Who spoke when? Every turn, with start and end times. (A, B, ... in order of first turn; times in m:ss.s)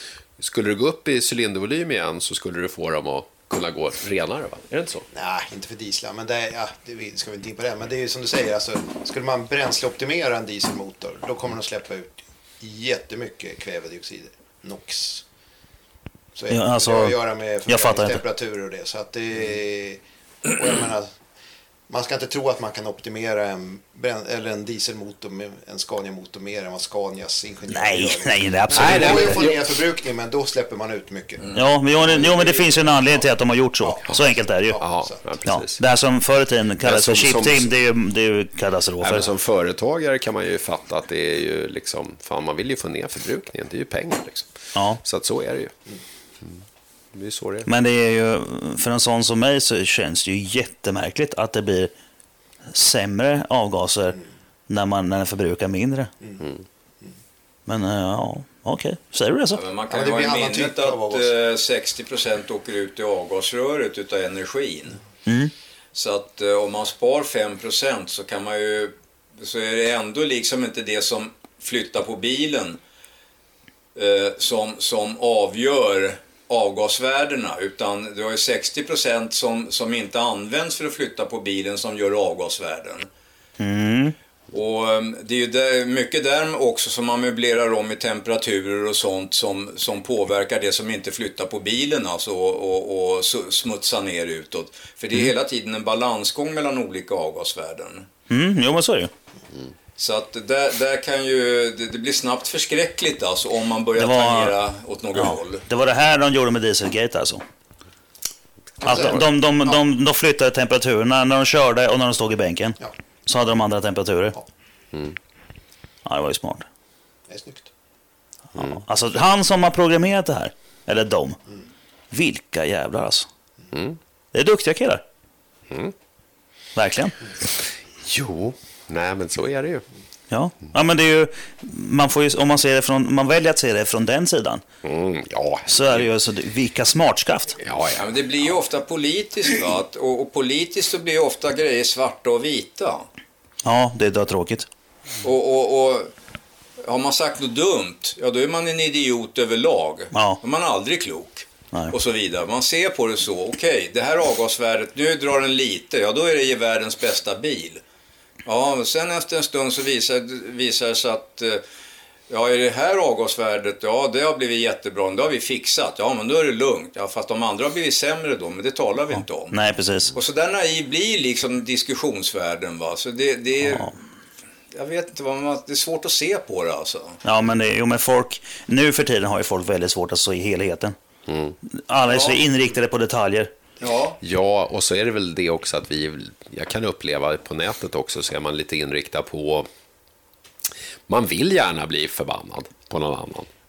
0:00.4-0:05.1 A
0:05.1-0:15.2 B
0:16.4-0:21.1 B
0:16.5-0:18.2 C
0:21.9-0:33.3 B
0:27.7-0:29.5 C
0:28.7-0:29.6 A
0:31.5-0:34.9 C
0:33.8-0:35.2 B
0:34.8-0:35.8 A
0:35.4-0:39.3 C
0:36.8-0:37.7 A
0:39.0-0:44.5 A
0:44.8-0:45.0 C
0:45.0-0:45.7 A
0:47.1-0:47.7 A
0:47.7-0:51.9 C
0:52.7-0:56.1 C
0:57.7-0:59.6 C
0:59.5-1:05.0 D
0:59.9-1:01.3 B
1:05.3-1:05.5 C
1:05.9-1:12.8 D
1:14.0-1:23.1 D
1:23.6-1:24.2 C
1:24.5-1:38.1 D
1:38.3-1:39.1 C
1:40.0-1:45.6 D
1:44.0-1:44.6 C
1:45.2-1:47.4 C
1:48.8-1:49.7 B
1:48.8-1:54.4 C
1:48.8-1:49.2 A
1:56.0-1:56.7 C
1:57.3-1:57.7 B
1:58.6-1:58.8 A
1:58.6-2:01.4 C
2:02.1-2:03.3 C
2:03.7-2:04.0 A
2:04.3-2:05.0 C
2:06.8-2:07.2 C
2:08.0-2:09.8 A
2:10.3-2:14.6 C
2:14.8-2:16.1 A
2:15.7-2:17.6 C
2:17.6-2:18.1 A
2:18.0-2:23.1 D
2:23.6-2:24.7 C
2:25.2-2:26.1 D
2:26.8-2:37.8 D
2:30.1-2:30.4 C
2:38.4-2:41.6 D
2:42.3-2:49.6 D
2:49.5-2:50.1 C
2:50.1-2:54.0 D
2:53.6-2:53.9 C
2:54.7-2:57.2 D
2:57.2-3:01.0 C
3:01.3-3:01.6 A
3:01.8-3:03.5 C
3:02.1-3:02.4 D
3:03.8-3:04.2 D
3:04.2-3:09.7 A
3:11.1-3:13.5 A